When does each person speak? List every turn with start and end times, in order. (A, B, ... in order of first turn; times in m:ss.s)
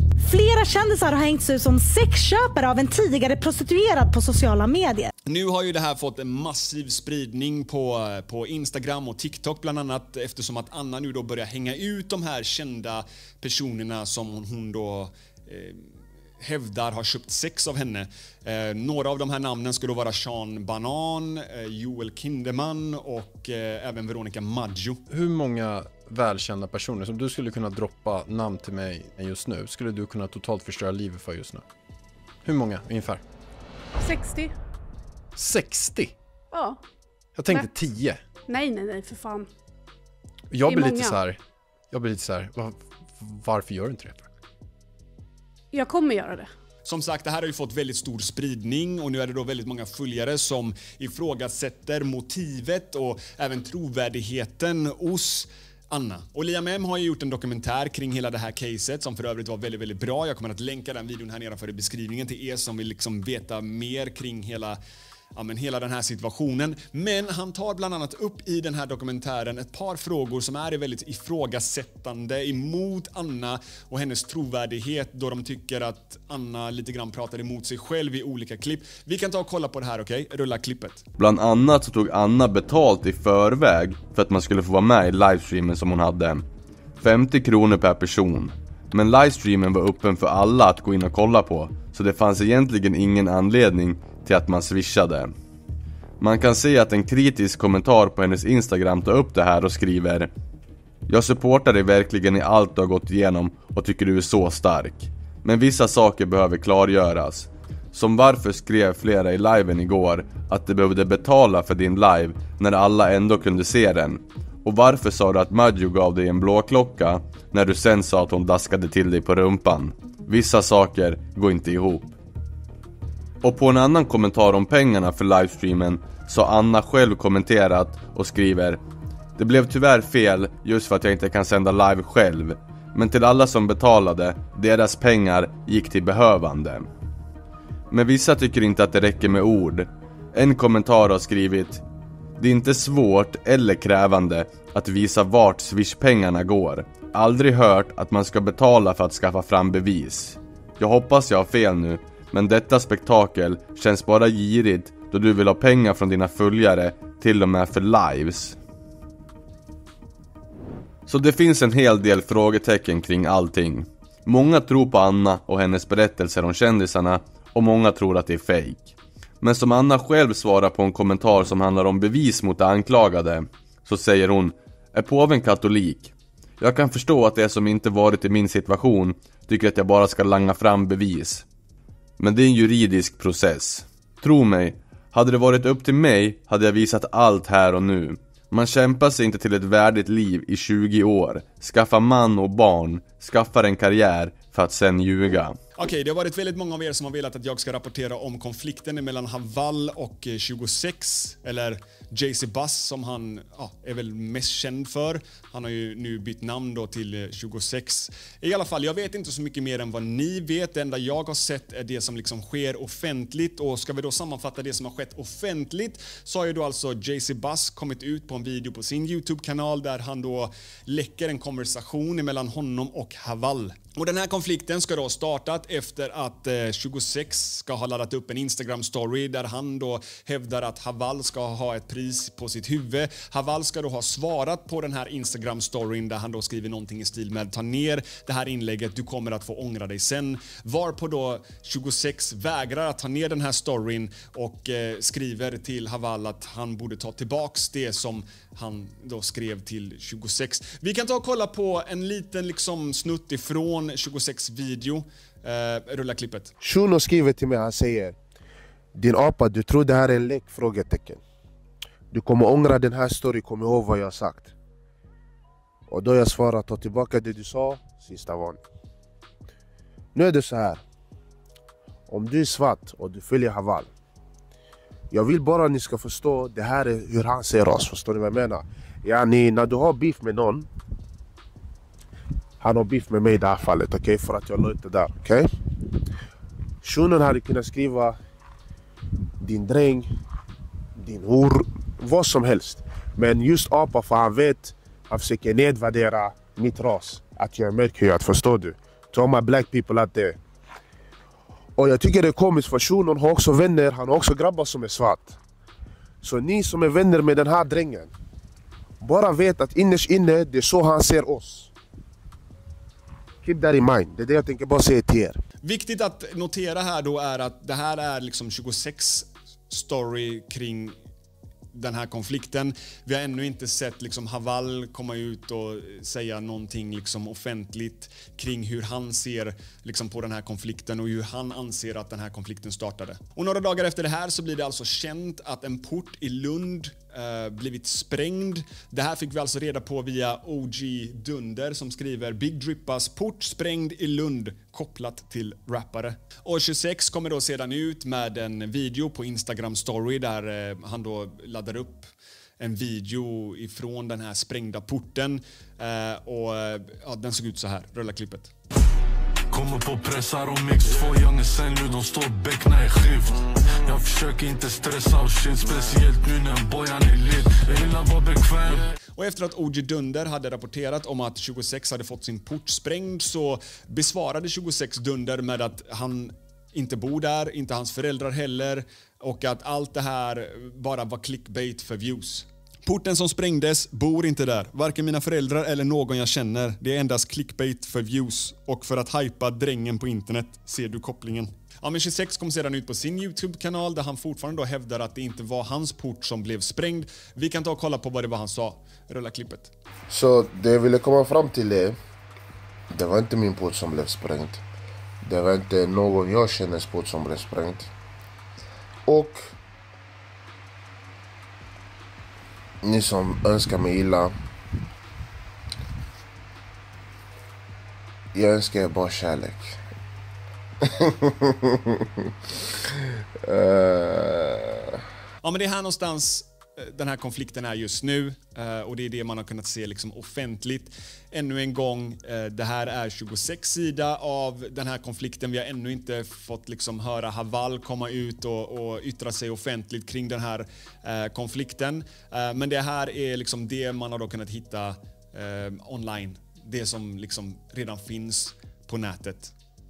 0:00.2-0:05.1 A
0:05.3-0:25.0 B
0:25.1-0:31.6 C
0:32.4-0:33.2 C
0:34.0-0:34.6 D
0:35.4-0:36.2 C
0:36.5-0:36.8 D
0:37.4-0:38.2 C
0:38.5-0:39.5 D
0:40.5-0:41.4 C
0:40.6-0:41.1 D
0:41.9-0:44.3 C
0:45.7-0:46.5 D
0:46.8-1:04.8 B
1:05.3-1:21.1 B
1:21.2-1:26.4 E
1:27.0-1:35.3 E
1:36.2-1:40.3 E
1:41.1-2:02.2 E
2:03.4-2:08.8 E
2:09.4-2:16.9 E
2:17.9-2:21.8 E
2:22.4-2:38.6 E
2:41.1-3:01.4 E
3:02.2-3:15.6 E
3:15.8-4:16.5 B
4:16.6-4:18.2 F
4:18.9-4:21.2 F
4:22.1-4:24.5 F
4:25.9-4:28.6 F
4:30.2-4:30.8 F
4:32.1-4:33.9 F
4:35.1-4:40.7 F
4:42.6-4:45.5 F
4:46.8-4:48.2 F
4:49.4-4:50.1 F
4:51.0-5:00.4 F
5:01.8-5:05.4 F
5:06.2-5:08.1 F
5:09.0-5:11.7 F
5:13.4-5:15.4 F
5:15.6-5:21.0 B
5:21.7-5:58.5 B
5:59.5-6:08.8 G
6:09.2-6:39.7 B
6:40.1-6:42.0 F
6:42.9-6:44.6 F
6:45.2-6:47.9 F
6:49.1-6:49.5 F
6:52.8-6:54.3 F
6:58.4-6:59.8 F
7:01.0-7:01.5 F
7:03.5-7:04.8 F
7:05.4-7:29.5 B